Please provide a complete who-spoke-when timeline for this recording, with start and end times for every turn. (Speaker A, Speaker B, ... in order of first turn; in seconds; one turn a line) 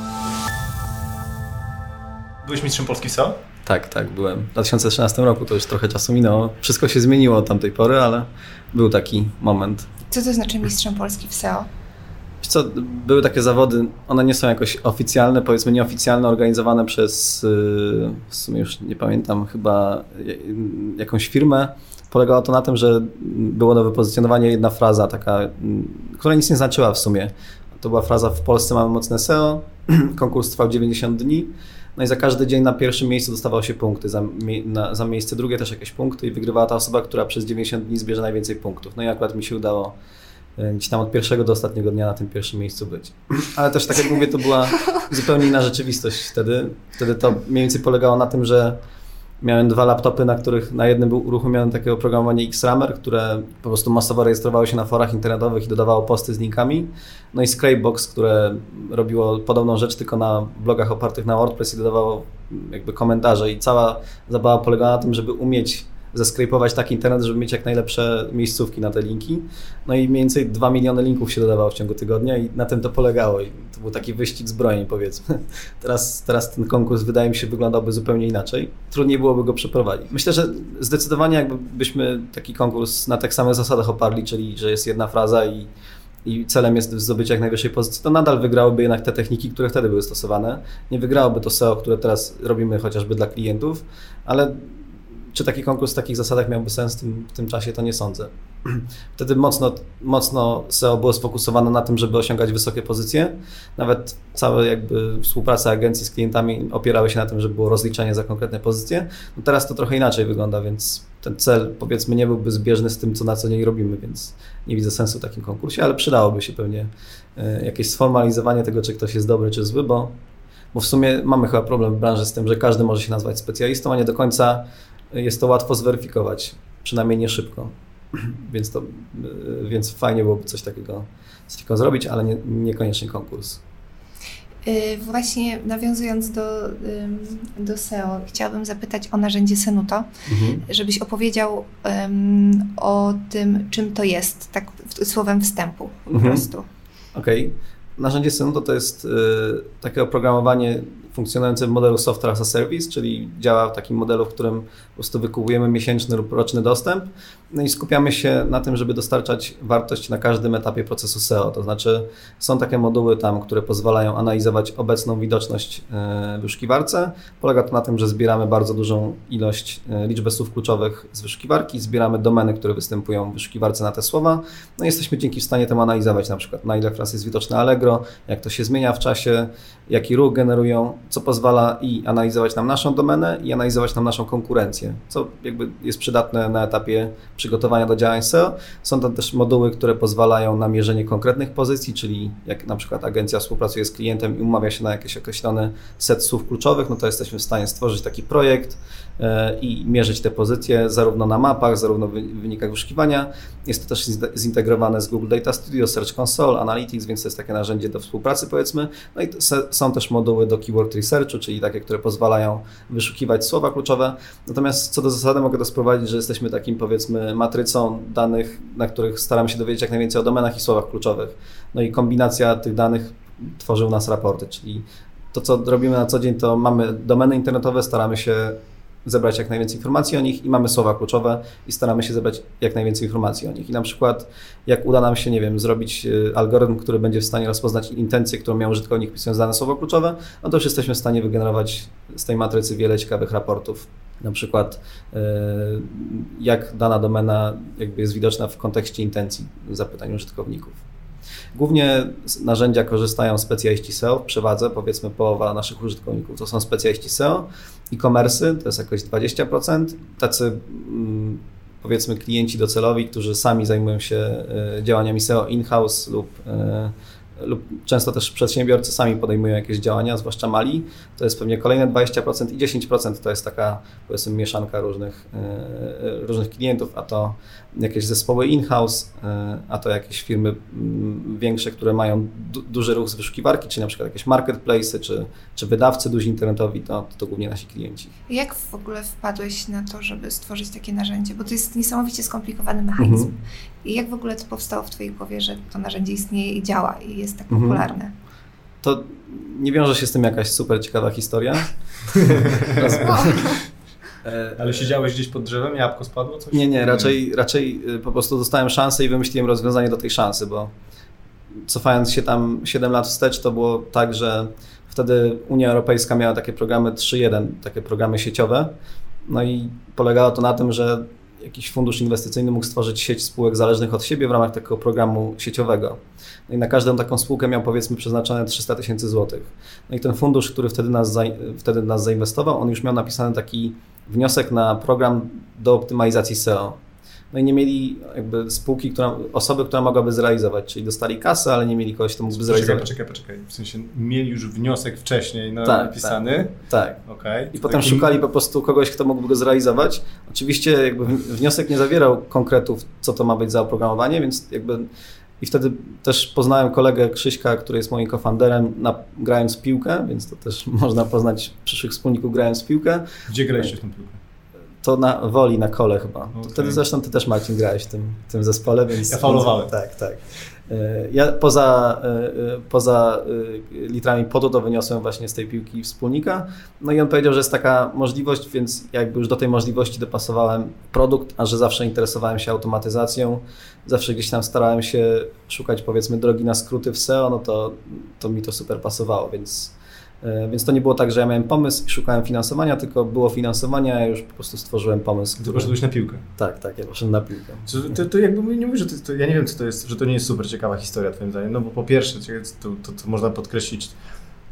Speaker A: 2.4-3.4
Speaker B: 3.6-9.9
Speaker C: 10.1-11.7
Speaker B: 12.4-40.0
Speaker B: 40.6-48.8
Speaker B: 49.4-85.7
Speaker B: 86.2-94.8
Speaker B: 95.3-120.2
Speaker B: 120.7-133.6
Speaker C: 134.7-140.1
Speaker B: 140.3-140.6
Speaker C: 140.7-146.7
Speaker B: 146.1-146.5
Speaker B: 147.1-250.8
Speaker B: 251.5-288.1
Speaker C: 288.3-298.1
Speaker B: 293.0-293.3
Speaker B: 297.5-297.8
Speaker B: 298.8-301.7
Speaker A: 302.1-303.5
Speaker B: 302.3-303.6
Speaker C: 303.2-303.5
Speaker B: 304.2-304.9
Speaker A: 304.6-307.2
Speaker B: 306.5-310.7
Speaker B: 311.6-318.7
Speaker B: 319.3-336.8
Speaker B: 337.3-342.9
Speaker A: 342.3-348.2
Speaker B: 345.6-347.0
Speaker B: 347.5-354.9
Speaker B: 355.4-363.7
Speaker A: 363.3-364.2
Speaker B: 364.8-395.7
Speaker A: 366.4-366.8
Speaker A: 369.1-369.7
Speaker A: 395.4-396.2
Speaker B: 396.4-397.7
Speaker A: 397.7-404.0